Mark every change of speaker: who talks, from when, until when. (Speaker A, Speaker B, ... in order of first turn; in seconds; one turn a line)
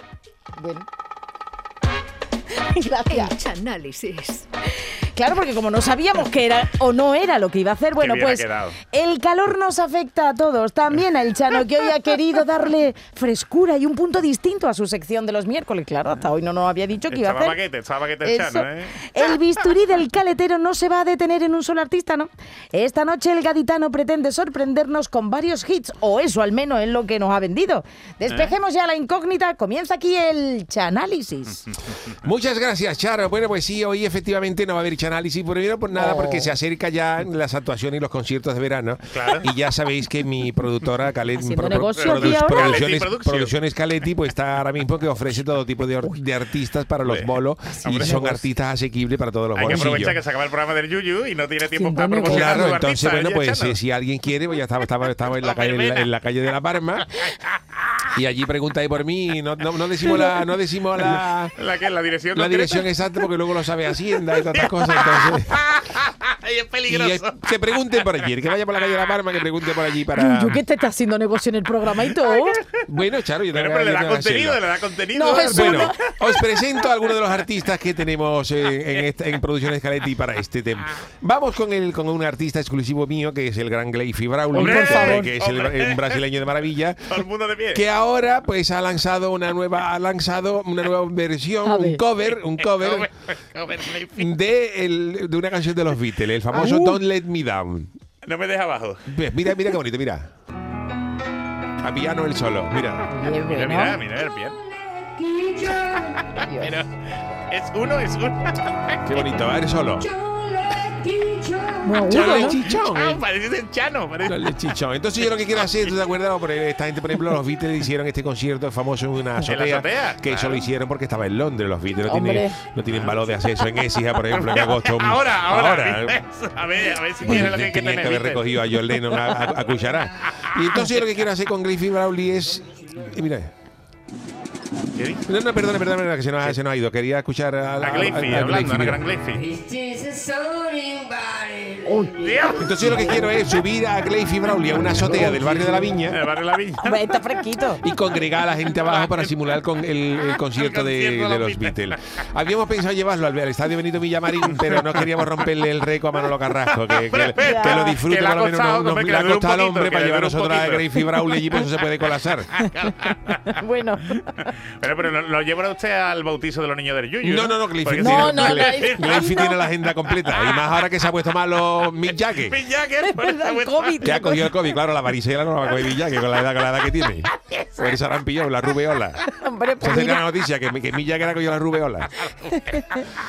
Speaker A: 0.6-0.8
Speaker A: 2.5-3.4
Speaker B: 3.1-4.5
Speaker A: 4.8-17.6
Speaker C: 8.0-8.8
Speaker C: 17.1-19.0
Speaker A: 18.2-31.7
Speaker C: 28.3-28.6
Speaker D: 32.0-50.2
Speaker A: 35.9-36.5
Speaker C: 39.1-39.5
Speaker A: 41.4-42.8
Speaker C: 41.9-43.5
Speaker C: 47.0-47.3
Speaker C: 47.8-48.4
Speaker A: 47.9-48.4
Speaker C: 49.5-53.8
Speaker A: 51.7-52.8
Speaker D: 52.2-57.1
Speaker C: 55.4-56.1
Speaker C: 57.2-57.5
Speaker D: 58.1-61.5
Speaker C: 61.1-63.2
Speaker D: 62.3-65.7
Speaker C: 64.3-68.3
Speaker D: 66.9-70.6
Speaker A: 70.1-72.6
Speaker C: 72.2-72.8
Speaker D: 72.8-74.6
Speaker C: 73.5-77.5
Speaker A: 75.1-76.1
Speaker D: 75.3-93.1
Speaker A: 84.5-85.3
Speaker C: 84.5-86.2
Speaker C: 87.1-87.8
Speaker A: 91.6-92.0
Speaker C: 92.3-94.3
Speaker D: 94.2-97.9
Speaker A: 96.5-97.0
Speaker C: 98.2-99.1
Speaker D: 99.1-100.3
Speaker D: 101.8-103.1
Speaker A: 103.1-104.0
Speaker C: 103.3-104.6
Speaker B: 104.7-106.4
Speaker C: 105.6-109.1
Speaker A: 106.4-106.7
Speaker D: 109.0-110.1
Speaker B: 109.4-112.0
Speaker A: 111.8-112.6
Speaker D: 112.0-113.2
Speaker C: 112.1-116.0
Speaker D: 114.2-126.2
Speaker C: 119.4-120.6
Speaker A: 122.0-122.6
Speaker C: 122.9-129.4
Speaker D: 127.2-133.5
Speaker C: 130.3-131.0
Speaker C: 134.9-135.2
Speaker D: 135.3-139.1
Speaker C: 137.8-139.5
Speaker B: 139.5-142.1
Speaker A: 141.8-142.1
Speaker C: 142.1-143.1
Speaker D: 142.6-146.2
Speaker C: 146.1-147.0
Speaker A: 146.8-147.8
Speaker D: 147.8-162.6
Speaker C: 148.7-149.3
Speaker C: 150.2-152.2
Speaker C: 154.5-155.5
Speaker C: 156.7-161.6
Speaker A: 157.4-158.0
Speaker C: 162.5-163.6
Speaker A: 163.6-164.3
Speaker C: 164.4-169.4
Speaker D: 167.2-172.6
Speaker A: 168.0-169.6
Speaker C: 169.9-170.7
Speaker C: 171.9-174.1
Speaker A: 173.0-174.7
Speaker D: 174.0-179.2
Speaker C: 175.8-177.9
Speaker A: 179.3-180.3
Speaker D: 179.8-182.2
Speaker C: 182.4-183.1
Speaker A: 182.6-182.8